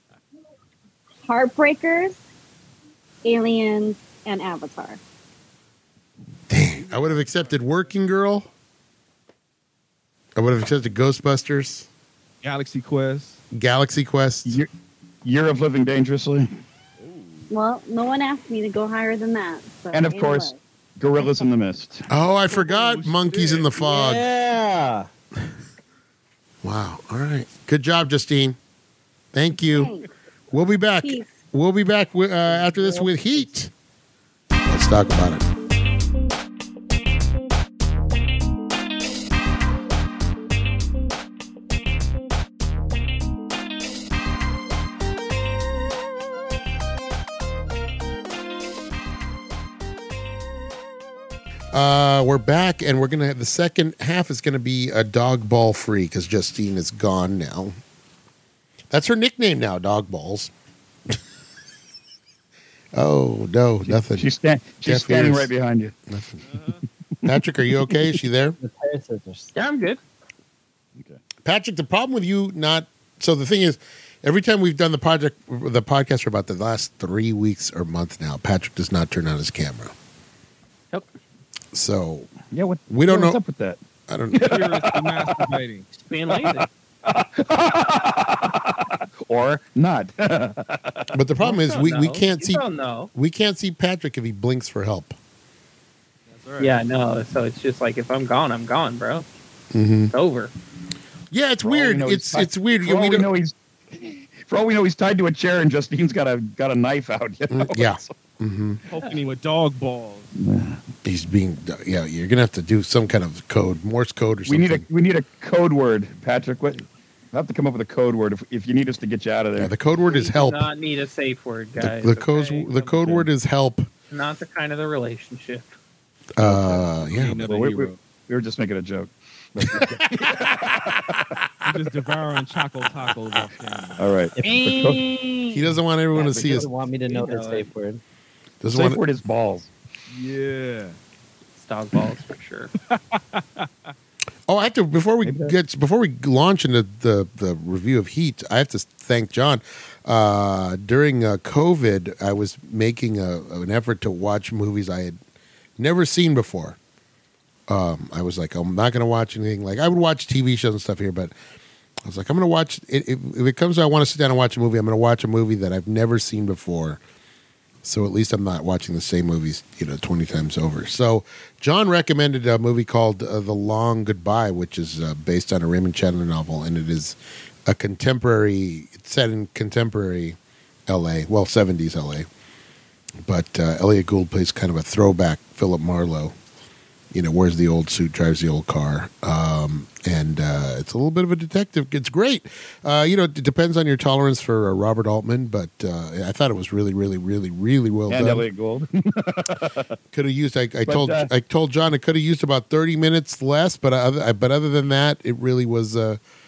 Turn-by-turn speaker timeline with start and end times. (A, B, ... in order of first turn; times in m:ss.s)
0:01.2-0:02.2 A
0:03.2-0:05.0 A
0:06.5-0:08.5 B
0:06.8-0:07.7 C
0:10.4-0:11.9 B
0:12.4-0:13.4 C
0:13.5-0:14.6 B
0:15.2-0:16.5 D
0:17.0-0:17.5 C
0:17.5-0:20.6 A
0:19.9-0:22.1 D
0:22.1-0:24.2 B
0:22.5-0:23.7 C
0:23.8-0:25.1 E
0:26.6-0:28.6 B
0:29.3-0:29.9 B
0:29.7-0:30.1 A
0:30.5-0:33.7 B
0:31.0-0:31.4 A
0:32.5-0:33.5 E
0:34.6-0:35.4 B
0:51.7-0:57.7 B
0:58.9-1:00.5 B
1:02.9-1:04.3 B
1:03.9-1:05.9 D
1:04.8-1:05.5 B
1:06.1-1:06.4 B
1:06.4-1:06.8 C
1:07.2-1:08.6 B
1:08.6-1:09.5 E
1:09.5-1:10.0 F
1:11.4-1:19.9 B
1:21.7-1:22.3 B
1:22.5-1:23.8 D
1:22.9-1:23.4 B
1:24.1-1:24.6 B
1:24.3-1:25.4 D
1:24.4-1:25.9 C
1:25.9-1:26.7 F
1:26.3-1:31.1 D
1:31.1-1:32.6 B
1:31.4-1:33.1 F
1:33.1-1:35.1 B
1:36.3-1:36.8 C
1:36.6-1:39.2 F
1:39.7-1:40.1 B
1:40.1-1:40.5 F
1:41.3-1:43.3 B
1:41.6-1:48.1 D
1:47.5-1:48.8 B
1:48.9-1:50.3 C
1:50.4-1:50.8 D
1:51.0-1:54.8 B
1:54.4-1:59.7 D
1:59.6-2:00.7 B
2:00.1-2:03.0 F
2:01.8-2:03.9 B
2:04.1-2:05.7 F
2:06.4-2:07.4 B
2:06.4-2:06.9 D
2:07.1-2:08.0 C
2:07.4-2:11.2 D
2:11.6-2:14.1 C
2:14.0-2:15.0 D
2:14.4-2:15.7 F
2:15.5-2:16.7 B
2:16.1-2:18.0 E
2:17.0-2:17.7 F
2:18.6-2:19.0 B
2:18.7-2:19.7 D
2:20.1-2:21.0 C
2:21.6-2:22.7 F
2:22.9-2:23.9 C
2:24.5-2:35.2 B
2:25.2-2:25.5 D
2:35.8-2:36.8 B
2:37.7-2:41.3 B
2:42.0-2:47.0 B
2:47.8-3:02.3 B
3:03.2-3:06.3 B
3:07.1-3:18.4 B
3:18.1-3:19.9 D
3:20.1-3:26.2 B
3:20.8-3:21.3 D